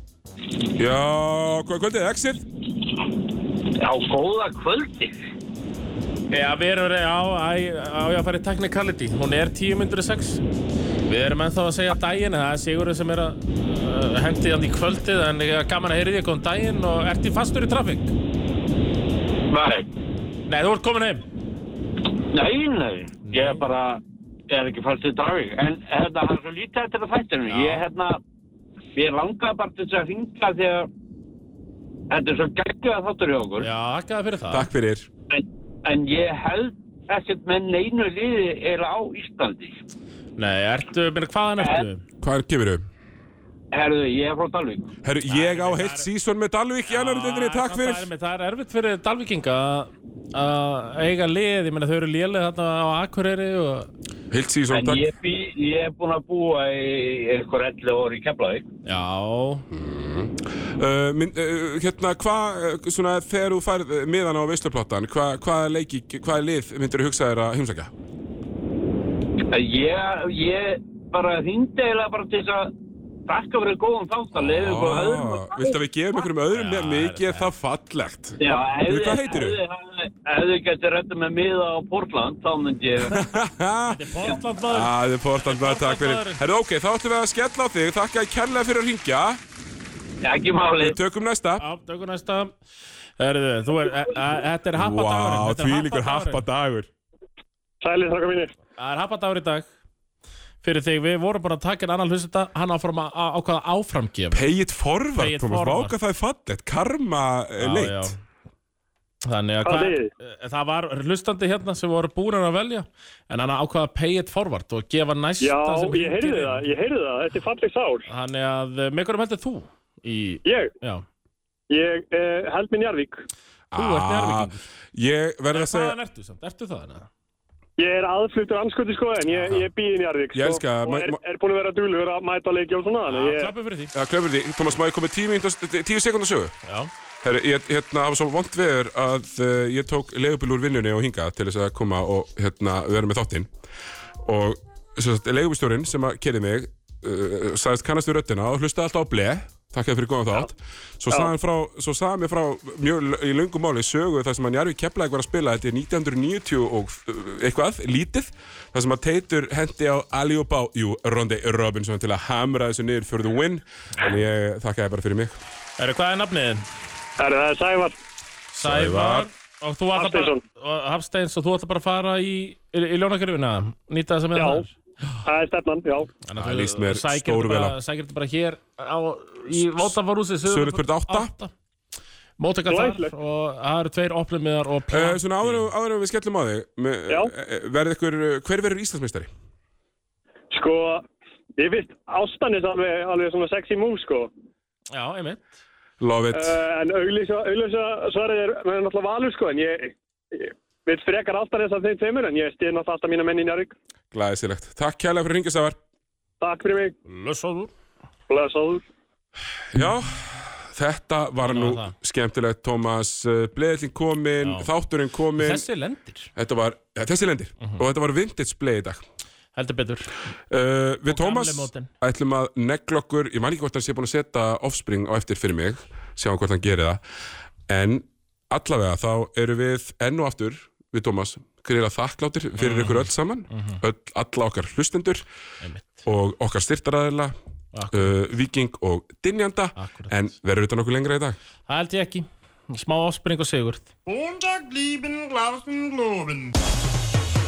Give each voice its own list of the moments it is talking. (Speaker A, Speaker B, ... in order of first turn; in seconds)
Speaker A: 0.7-2.4, 34.5-35.1, 42.2-42.8, 45.0-48.1, 54.3-55.1, 59.7-67.9, 74.3-79.6, 83.0-89.4, 90.8-91.6, 94.7-96.9, 104.3-108.2, 123.7-126.0, 130.3-131.2, 133.9-136.6, 137.2-143.5, 144.2-165.4, 168.6-169.3, 176.3-177.8, 179.5-179.9, 180.4-181.3, 184.9-189.3, 196.0-196.6, 204.1-205.8, 209.7-215.6, 216.3-219.0, 220.5-227.0, 227.7-235.2, 236.0-237.3, 237.9-241.4
Speaker B: 3.8-5.1, 19.5-19.9, 22.3-28.2, 28.9-30.9, 32.1-33.7, 35.3-39.8, 41.6-41.9, 43.7-44.9, 54.7-58.6, 69.5-72.7, 73.3-75.8, 78.4-83.2, 90.2-91.0
Speaker C: 6.3-10.4, 11.1-18.1, 20.5-21.2, 23.2-23.6, 27.5-27.8, 33.6-34.7, 40.4-42.0, 45.3-46.1, 46.9-53.9, 58.8-59.7, 76.5-77.5, 83.9-86.4, 91.6-92.5, 93.2-96.4, 98.8-99.7, 100.6-104.5, 105.1-105.9, 107.6-108.2, 109.2-116.7, 118.1-121.0, 123.7-124.6, 125.5-127.1, 129.3-129.6, 133.1-133.9, 136.6-136.9, 165.8-166.6, 168.5-175.2, 176.2-181.5, 182.4-185.7, 194.9-195.5, 207.1-207.7, 211.4-211.9, 214.4-214.7, 215.3-216.3, 219.6-220.1, 221.1-221.9, 232.6-233.8, 235.6-236.1, 237.7-238.1, 239.8-240.1, 241.7-243.9
Speaker D: 97.8-98.6, 109.6-110.1, 115.4-118.0, 120.4-120.7, 121.7-123.2, 127.8-133.5, 167.2-167.9, 169.9-170.4, 174.3-174.7, 175.2-176.1, 182.7-183.1, 190.5-191.1, 191.6-194.3, 196.3-203.7, 206.4-206.9, 208.3-208.8
Speaker E: 244.1-246.5